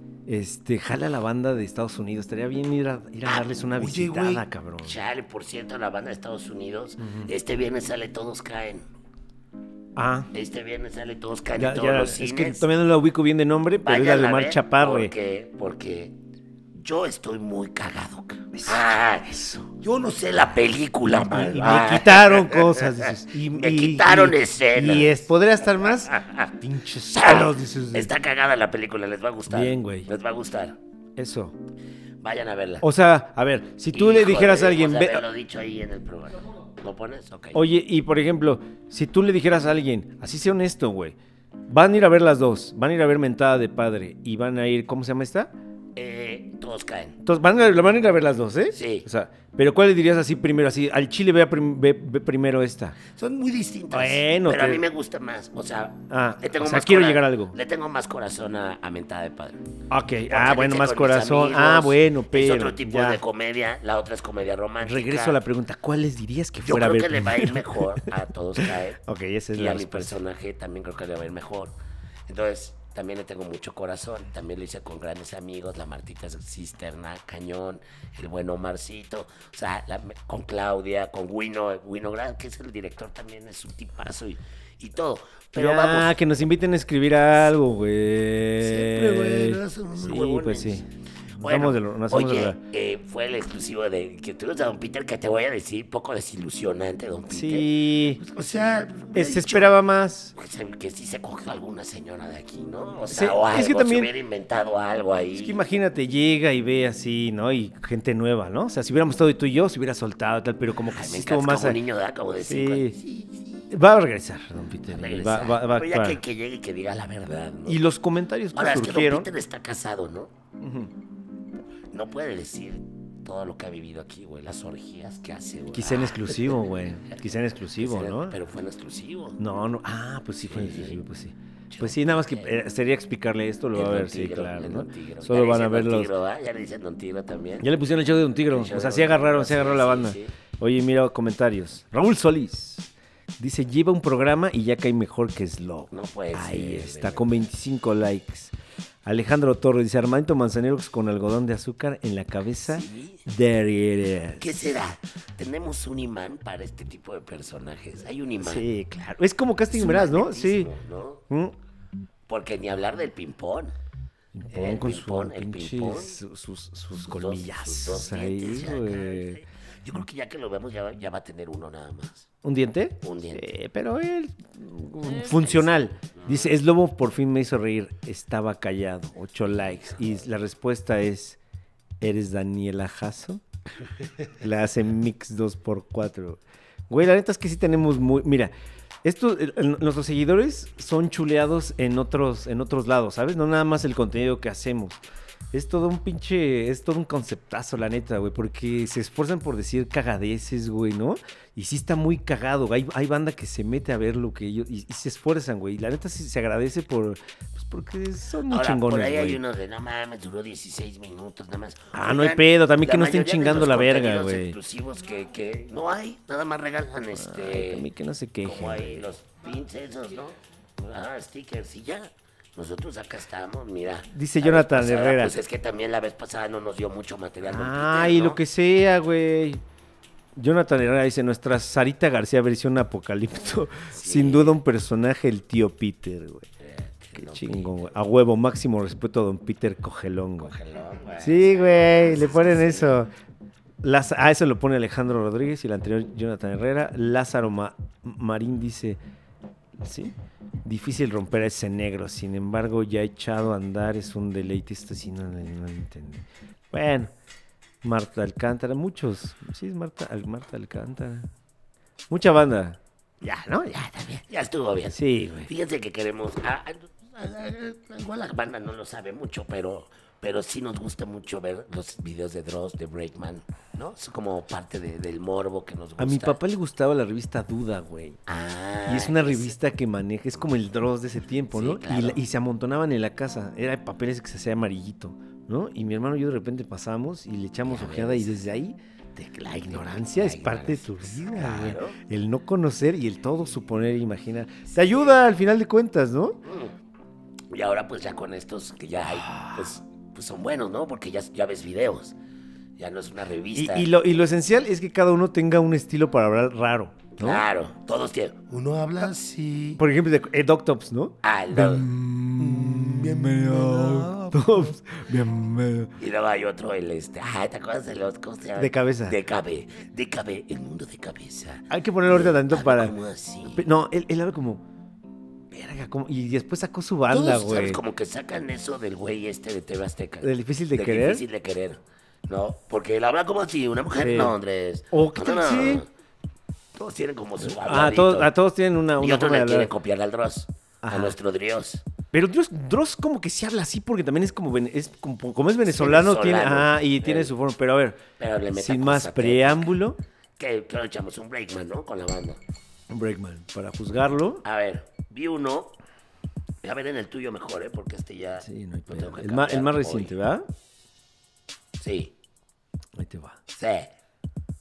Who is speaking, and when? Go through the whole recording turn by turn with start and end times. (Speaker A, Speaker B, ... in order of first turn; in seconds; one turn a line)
Speaker A: 0.3-5.0
Speaker B: 3.2-8.9
Speaker A: 7.0-7.3
Speaker A: 10.0-10.3
Speaker B: 10.3-12.7
Speaker A: 11.6-15.1
Speaker B: 13.8-16.2
Speaker B: 16.7-30.8
Speaker A: 18.5-19.8
Speaker A: 21.2-28.1
Speaker A: 29.5-30.1
Speaker A: 31.2-31.6
Speaker B: 32.2-32.9
Speaker A: 32.8-35.3
Speaker B: 33.9-37.6
Speaker A: 37.5-41.2
Speaker A: 41.7-45.5
Speaker B: 46.0-47.2
Speaker A: 47.2-53.0
Speaker B: 48.7-49.1
Speaker B: 53.0-59.6
Speaker A: 53.9-54.9
Speaker A: 56.1-57.6
Speaker A: 59.9-63.2
Speaker B: 60.3-65.4
Speaker A: 64.8-70.2
Speaker B: 66.6-69.0
Speaker B: 69.5-71.8
Speaker B: 72.3-86.2
Speaker A: 85.5-92.6
Speaker B: 88.6-90.9
Speaker B: 91.4-99.8
Speaker A: 97.3-98.2
Speaker A: 99.1-100.3
Speaker B: 100.3-105.6
Speaker A: 103.1-104.1
Speaker A: 105.3-111.8
Speaker B: 110.9-113.7
Speaker A: 112.4-113.0
Speaker A: 113.7-116.2
Speaker B: 114.9-117.8
Speaker A: 117.7-119.3
Speaker B: 118.5-120.3
Speaker A: 120.6-120.9
Speaker B: 121.9-126.7
Speaker A: 125.7-128.4
Speaker B: 127.8-129.4
Speaker A: 129.4-136.1
Speaker B: 130.4-131.0
Speaker B: 131.7-132.5
Speaker B: 133.7-137.7
Speaker A: 137.6-148.5
Speaker B: 138.5-140.3
Speaker B: 145.9-147.4
Speaker A: 149.1-154.6
Speaker B: 152.7-153.2
Speaker B: 154.4-158.7
Speaker A: 158.4-160.7
Speaker B: 159.7-161.2
Speaker B: 162.3-163.8
Speaker A: 164.3-169.4
Speaker B: 164.5-166.2
Speaker B: 167.1-169.2
Speaker B: 169.8-172.3
Speaker A: 172.4-181.4
Speaker B: 173.0-173.5
Speaker B: 175.2-176.5
Speaker B: 179.5-180.1
Speaker A: 182.0-183.4
Speaker A: 184.3-188.5
Speaker A: 189.0-195.0
Speaker A: 195.5-209.4
Speaker B: 208.5-217.9
Speaker A: 211.9-214.6
Speaker A: 217.2-219.1
Speaker B: 218.4-228.4
Speaker A: 224.1-225.3
Speaker A: 227.5-229.6
Speaker A: 230.4-236.5
Speaker B: 233.9-234.6
Speaker B: 236.6-237.9
Speaker A: 237.2-240.5
Speaker B: 240.4-243.0
Speaker A: 241.2-243.1
Speaker A: 243.8-249.0
Speaker A: 249.8-257.1
Speaker A: 257.8-261.3
Speaker A: 262.1-264.2
Speaker B: 264.3-276.4
Speaker A: 264.9-265.5
Speaker A: 276.0-278.2
Speaker B: 278.3-279.6
Speaker A: 278.9-296.4
Speaker B: 281.5-282.2
Speaker B: 287.6-288.6
Speaker B: 289.7-292.0
Speaker B: 294.7-295.2
Speaker B: 296.5-296.8
Speaker B: 297.5-302.1
Speaker A: 299.0-299.7
Speaker B: 302.8-303.9
Speaker A: 303.6-307.4
Speaker B: 307.2-309.8
Speaker A: 309.8-315.9
Speaker B: 311.2-314.4
Speaker B: 316.0-323.6
Speaker A: 318.6-319.2
Speaker A: 321.7-322.9
Speaker A: 323.5-324.6
Speaker A: 325.5-327.8
Speaker B: 327.1-335.9
Speaker A: 330.2-331.2
Speaker A: 334.0-334.4
Speaker A: 334.9-335.9
Speaker B: 336.7-338.3
Speaker A: 337.4-339.7
Speaker B: 339.0-341.9
Speaker A: 340.8-341.2
Speaker A: 342.1-350.0
Speaker B: 345.6-347.3
Speaker B: 348.2-349.8
Speaker B: 350.4-352.4
Speaker A: 352.9-354.4
Speaker B: 354.4-355.8
Speaker B: 356.6-360.2
Speaker A: 358.4-360.5
Speaker B: 361.8-362.1
Speaker A: 363.0-363.4
Speaker B: 363.5-363.9